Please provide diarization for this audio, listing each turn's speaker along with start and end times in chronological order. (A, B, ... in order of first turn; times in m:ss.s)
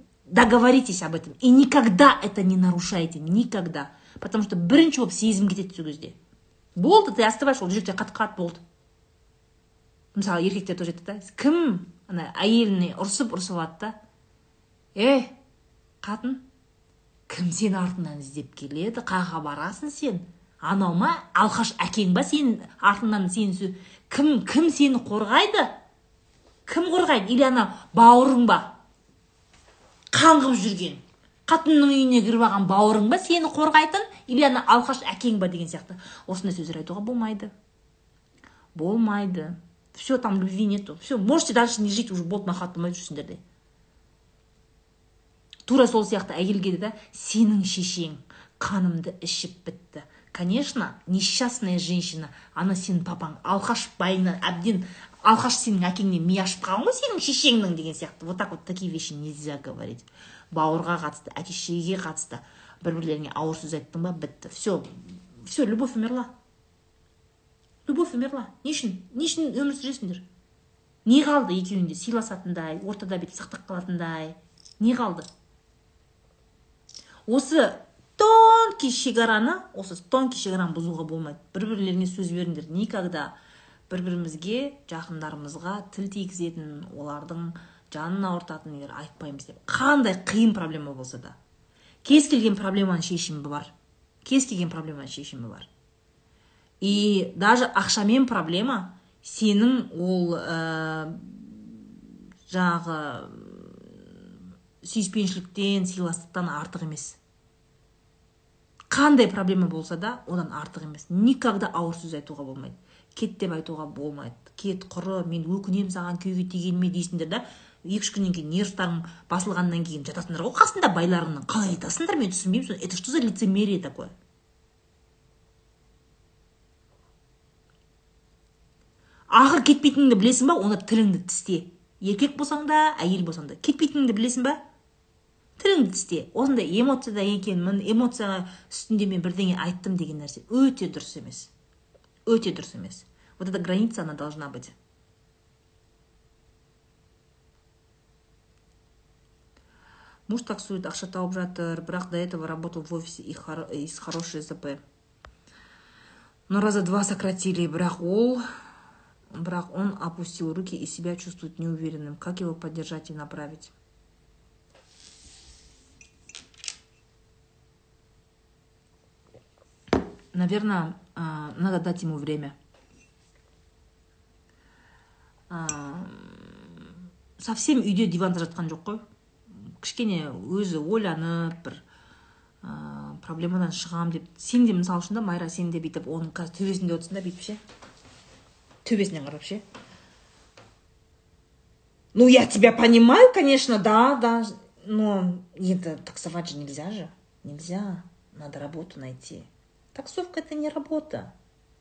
0:00.3-0:06.2 A
0:06.8-0:08.6 A
0:10.1-0:13.9 A
0:14.9-0:15.4 A
0:16.0-0:16.4 A
0:17.3-0:25.7 A
0:26.7-0:28.8 A
0:30.1-0:37.5 A
0:38.8-0:43.4 A
0:45.6-1:06.3 A
1:07.9-1:10.2 A
1:11.0-1:15.3 A
1:17.3-1:23.4 A
1:23.9-1:31.4 A
1:32.0-1:33.7 A
1:34.2-1:35.7 A
1:36.8-1:42.0 A
1:42.5-1:44.1 A
1:44.8-1:47.2 A
1:48.9-2:04.1 A
2:09.3-2:14.6 A
2:15.6-2:21.5 A
2:22.2-2:24.7 A
2:30.3-2:34.8 A
2:36.5-2:38.4 A
2:39.3-2:43.7 A
2:50.3-2:52.6 A
2:55.5-2:59.0 A
2:59.5-3:01.8 A
3:02.6-3:07.6 A
3:08.8-3:09.6 A
3:12.1-3:21.3 A